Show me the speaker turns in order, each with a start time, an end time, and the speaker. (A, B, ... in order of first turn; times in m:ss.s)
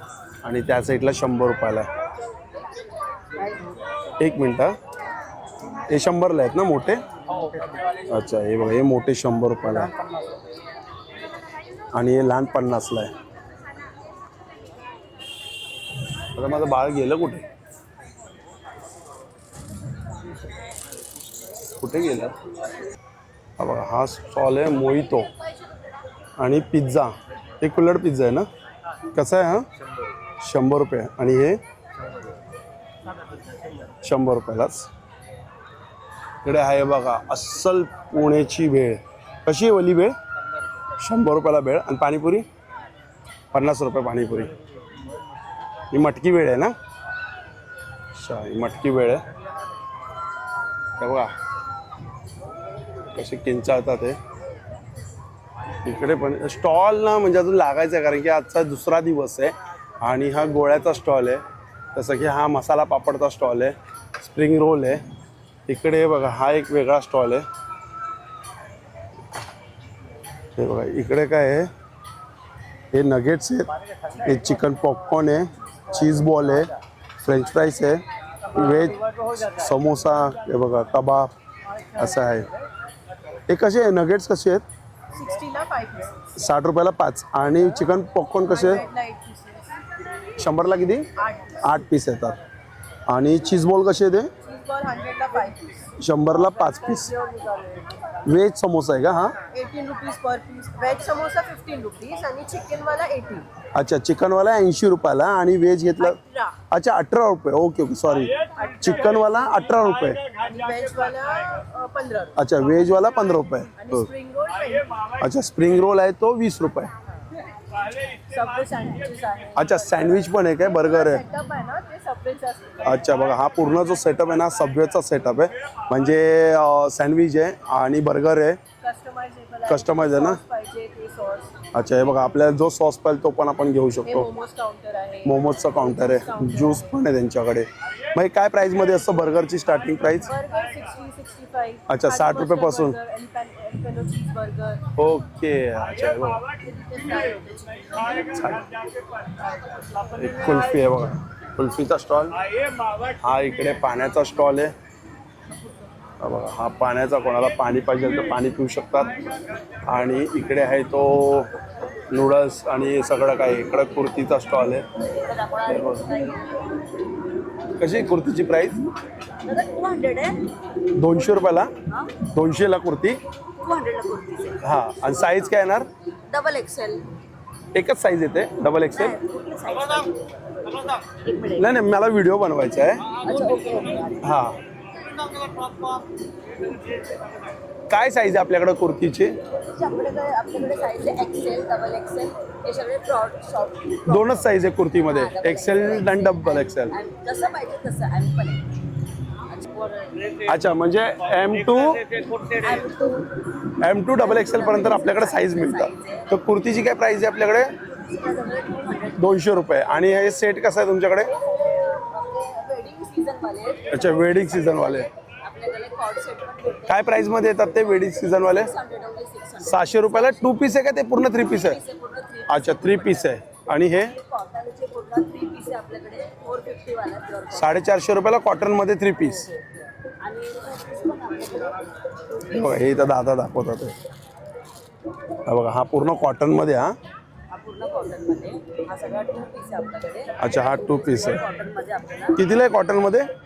0:00.4-0:01.9 A
0:04.2-0:04.8 A
0:05.9-0:07.0 A
0:08.1-0:09.9 A
0:11.9-0:13.1 A
0:16.3-0:17.4 A
0:21.8-0:22.4 A
0:23.6-0:25.3 A
0:26.4-0:28.5 A
0:29.1-0:29.7 A
0:30.4-0:31.6 A
0:34.0-0:34.9 A
0:36.4-0:40.1 A
0:41.0-0:42.4 A
0:43.5-0:44.5 A
0:45.9-0:46.7 A
0:48.1-0:49.2 A
0:51.0-0:51.3 A
0:53.1-0:54.2 A
0:55.8-1:01.4 A
1:01.9-1:05.0 A
1:05.7-1:07.4 A
1:10.6-1:11.7 A
1:12.9-1:13.7 A
1:14.2-1:16.7 A
1:17.2-1:18.0 A
1:18.5-1:21.3 A
1:22.0-1:22.5 A
1:23.5-1:24.6 A
1:25.1-1:26.3 B
1:26.4-1:28.8 A
1:28.4-1:29.8 B
1:30.4-1:31.1 A
1:31.2-1:31.6 B
1:31.6-1:32.4 A
1:33.1-1:34.3 A
1:34.4-1:37.9 B
1:36.0-1:37.1 A
1:38.2-1:39.4 A
1:39.5-1:43.5 B
1:43.7-1:46.2 A
1:46.0-1:46.5 B
1:46.7-1:50.2 A
1:50.4-1:52.4 B
1:52.4-1:54.1 A
1:53.8-1:54.9 B
1:55.2-1:56.9 A
1:58.3-2:02.8 B
1:59.6-2:01.2 A
2:02.8-2:08.6 A
2:08.8-2:11.5 B
2:09.7-2:10.4 A
2:11.7-2:14.3 A
2:14.0-2:16.9 B
2:15.2-2:20.3 A
2:20.3-2:24.8 B
2:21.9-2:22.9 A
2:25.0-2:26.4 A
2:26.6-2:28.4 B
2:28.3-2:28.7 A
2:30.2-2:32.4 A
2:33.2-2:34.7 A
2:36.2-2:39.2 A
2:39.8-2:41.5 A
2:42.1-2:44.8 A
2:45.1-2:46.7 C
2:45.7-2:46.0 A
2:47.8-2:48.8 A
2:49.4-2:50.4 C
2:51.0-2:51.7 A
2:51.9-2:52.1 C
2:52.3-2:53.2 A
2:53.6-2:55.6 C
2:54.6-2:55.9 A
2:56.3-2:57.0 C
2:57.7-2:59.2 A
2:58.9-3:01.8 C
3:01.6-3:03.1 A
3:03.1-3:04.4 C
3:04.2-3:04.6 A
3:07.9-3:09.4 A
3:09.7-3:18.7 C
3:14.1-3:16.9 A
3:19.5-3:20.2 C
3:20.5-3:22.0 A
3:22.4-3:23.3 C
3:23.8-3:27.7 A
3:24.1-3:26.3 C
3:28.0-3:29.5 C
3:29.2-3:31.3 A
3:31.3-3:37.2 C
3:33.9-3:35.1 A
3:36.9-3:38.7 A
3:38.3-3:40.7 C
3:39.6-3:41.8 A
3:41.3-3:43.4 C
3:42.5-3:44.1 A
3:43.9-3:48.0 C
3:47.5-3:49.5 A
3:49.2-3:52.9 C
3:52.5-3:53.9 A
3:55.4-3:57.0 A
3:57.5-4:02.5 C
4:00.4-4:01.4 A
4:02.4-4:03.3 A